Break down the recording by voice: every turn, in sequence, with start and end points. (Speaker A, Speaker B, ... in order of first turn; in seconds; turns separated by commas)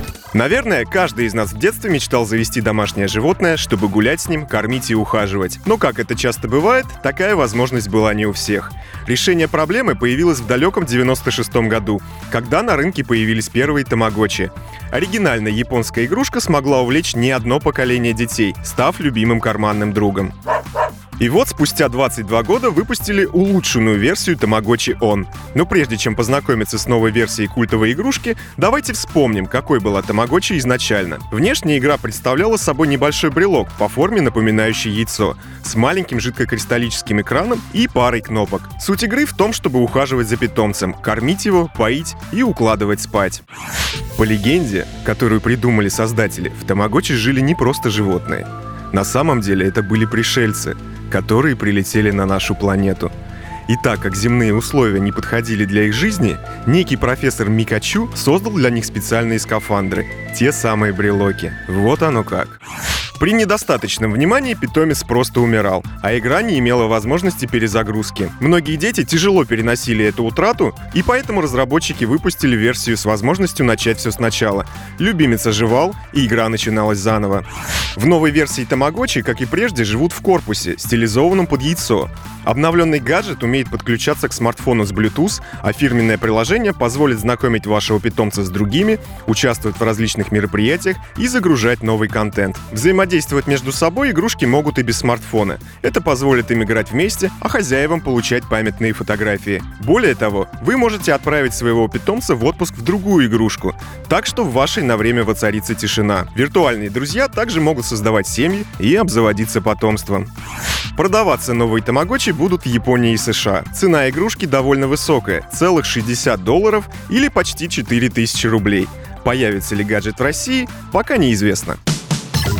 Speaker A: 0.3-20.3, Speaker A: 21.2-43.4, Speaker A: 44.2-53.1, Speaker A: 53.7-62.6, Speaker A: 63.2-110.3, Speaker A: 111.0-121.8